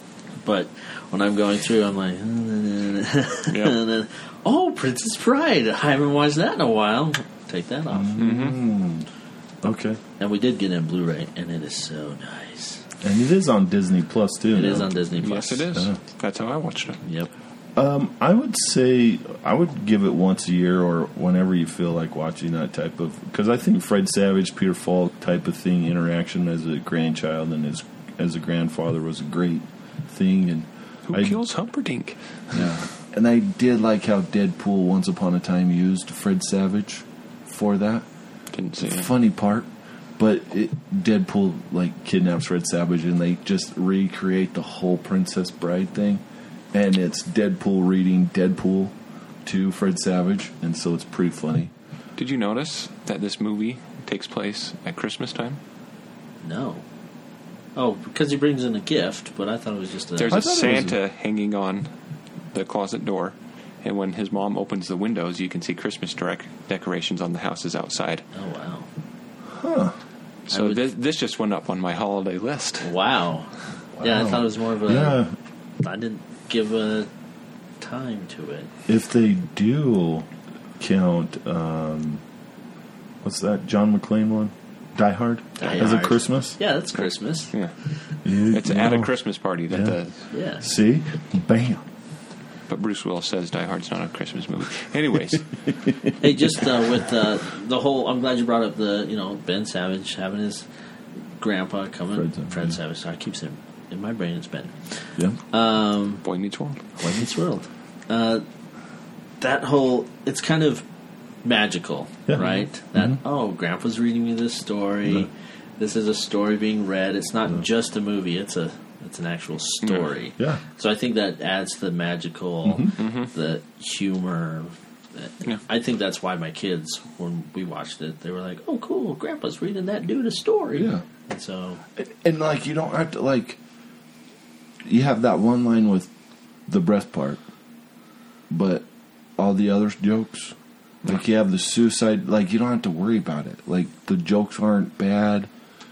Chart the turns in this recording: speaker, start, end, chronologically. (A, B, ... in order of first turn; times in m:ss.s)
0:00.4-0:08.2 A
0:03.5-0:03.7 B
0:07.9-0:09.1 C
0:08.2-0:08.6 B
0:09.6-0:10.0 C
0:10.2-0:12.8 A
0:13.0-0:14.9 C
0:14.5-0:15.7 A
0:15.2-0:17.0 B
0:15.7-0:16.0 C
0:17.0-0:17.3 A
0:17.8-0:31.4 C
0:31.1-0:32.6 B
0:32.5-0:38.0 C
0:38.5-0:39.1 B
0:38.8-0:51.7 C
0:52.2-0:55.6 B
0:56.4-0:56.8 A
0:57.8-1:00.4 A
1:00.2-1:01.9 B
1:00.2-1:01.0 C
1:02.5-1:08.2 B
1:08.3-1:08.9 A
1:09.5-1:10.0 C
1:10.5-1:12.9 B
1:10.5-1:10.8 A
1:12.8-1:15.2 A
1:14.0-1:15.3 C
1:15.8-1:17.1 A
1:17.8-1:18.7 A
1:18.9-1:22.2 C
1:23.2-1:26.6 C
1:25.6-1:27.9 A
1:26.9-1:27.7 B
1:28.2-1:29.1 C
1:28.5-1:30.2 B
1:29.7-1:30.0 C
1:30.3-1:30.6 A
1:30.6-1:31.8 C
1:32.7-1:35.6 B
1:36.2-1:40.6 A
1:41.4-1:46.2 A
1:42.1-1:42.8 C
1:46.2-1:46.8 B
1:47.0-1:48.4 A
1:49.4-1:50.8 A
1:51.4-2:11.8 A
1:52.3-1:53.2 C
1:59.8-2:00.1 B
2:00.4-2:00.6 C
2:02.6-2:03.0 C
2:03.0-2:03.3 B
2:10.7-2:11.0 C
2:12.0-2:13.6 C
2:14.8-2:16.1 C
2:16.7-2:17.4 C
2:18.5-2:18.9 C
2:19.4-2:25.5 C